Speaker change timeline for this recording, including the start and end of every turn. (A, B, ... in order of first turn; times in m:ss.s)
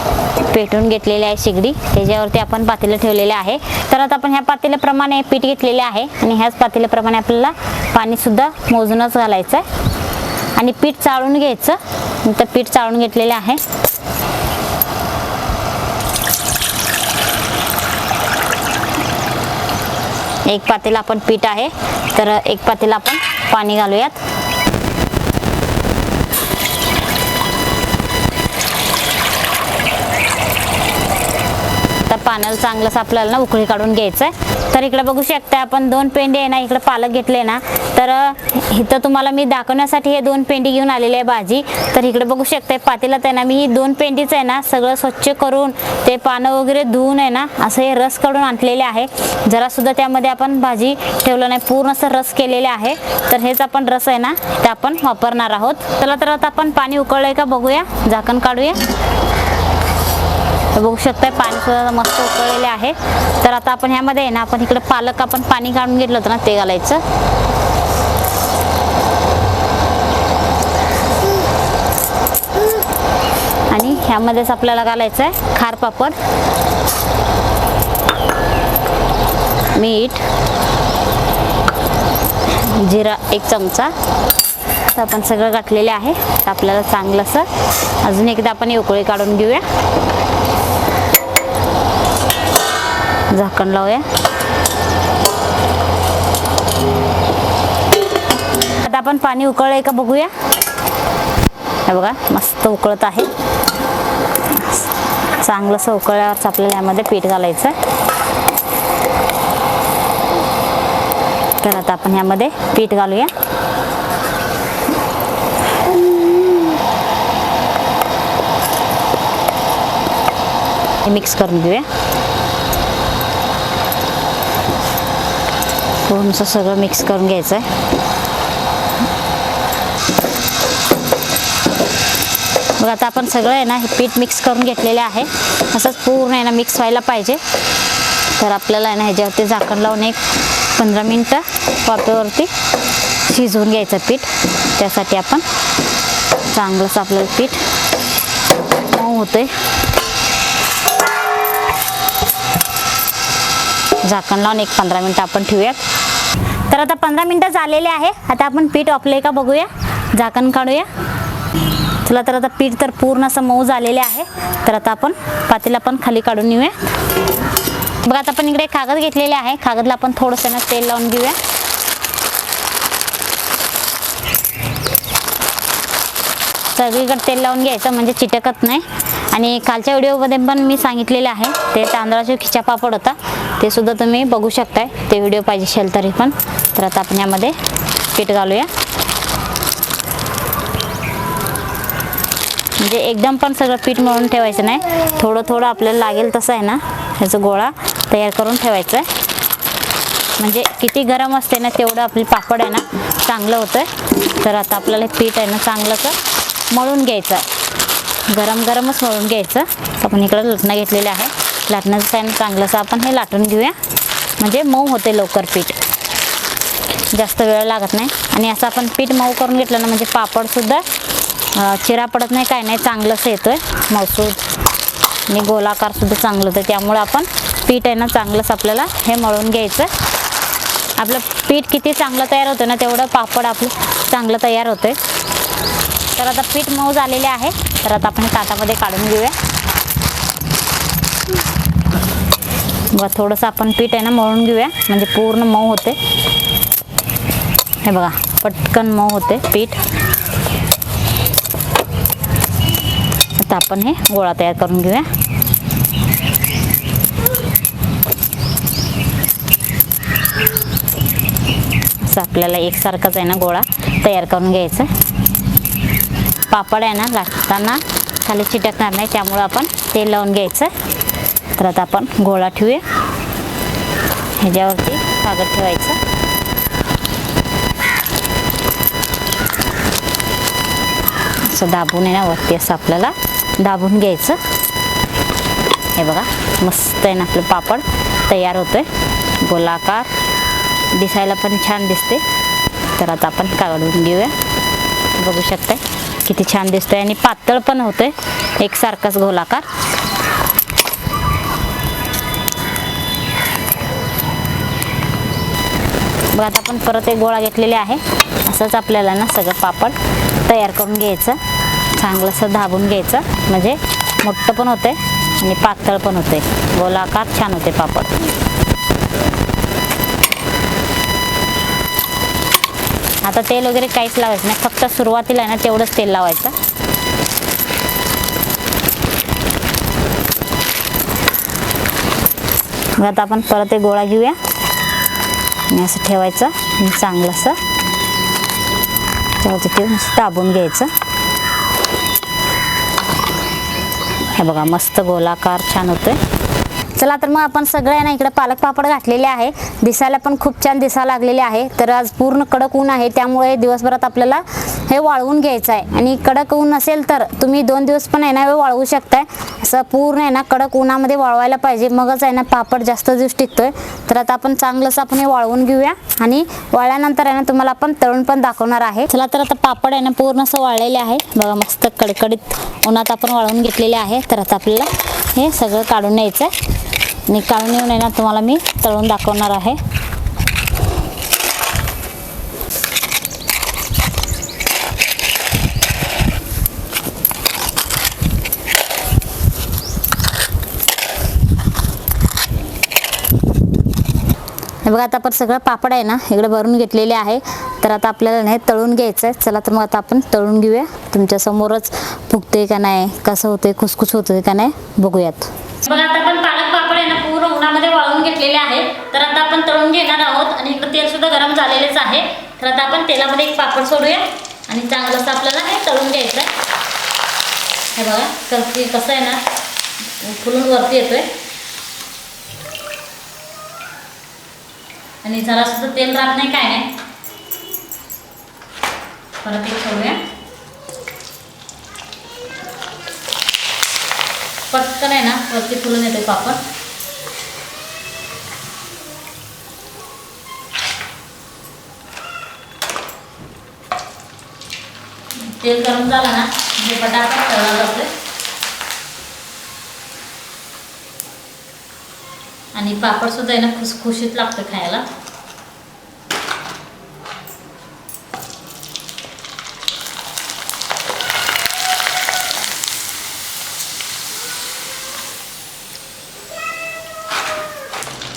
0:00.4-0:09.7 A
0:10.6-0:13.6 A
0:20.4-0:24.2 A
0:32.1-0:58.8 A
1:00.7-1:07.0 A
1:13.7-1:16.2 A
1:19.8-1:20.2 A
1:22.5-1:23.9 A
1:24.9-1:27.5 A
1:28.0-1:29.7 A
1:33.3-1:34.1 A
1:38.8-1:40.3 A
1:41.8-1:43.3 A
1:44.5-1:47.8 A
1:51.6-1:53.3 A
2:01.1-2:01.9 A
2:06.0-2:07.7 A
2:12.8-2:17.4 A
2:18.3-2:22.5 A
2:23.2-2:25.4 A
2:26.4-2:27.7 A
2:28.8-2:29.5 A
2:34.0-2:35.8 A
2:36.7-2:40.9 A
2:42.0-2:46.8 A
2:48.0-2:51.4 A
2:56.7-3:07.6 A
3:08.1-3:08.7 A
3:12.8-3:19.1 A
3:20.4-3:26.2 A
3:26.7-3:27.5 A
3:28.3-3:33.8 A
3:34.4-3:35.8 A
3:37.1-3:40.9 A
3:41.5-3:44.4 A
3:45.3-3:49.9 A
3:51.0-3:55.0 A
3:56.1-3:59.4 A
4:02.9-4:06.0 A
4:07.8-4:09.8 A
4:13.4-4:15.1 A
4:22.0-4:24.9 A
4:26.5-4:30.7 A
4:31.6-4:32.9 A
4:34.4-4:36.0 A
4:41.4-4:44.4 A
4:46.0-4:50.1 A
4:50.9-4:52.2 A
4:52.9-4:54.4 A
4:55.1-4:59.7 A
5:06.3-5:11.4 A
5:11.9-5:18.2 A
5:23.2-5:26.6 A
5:33.0-5:34.4 A
5:35.7-5:37.6 A
5:39.4-5:40.9 A
5:44.3-5:46.2 A
5:47.0-6:16.5 A
6:17.3-6:19.8 A
6:34.8-6:56.5 A
6:57.9-6:59.4 A
7:00.1-7:01.3 A
7:05.2-7:07.0 A
7:09.4-7:10.2 A
7:14.7-7:16.6 A
7:25.3-7:28.1 A
7:32.7-7:35.1 A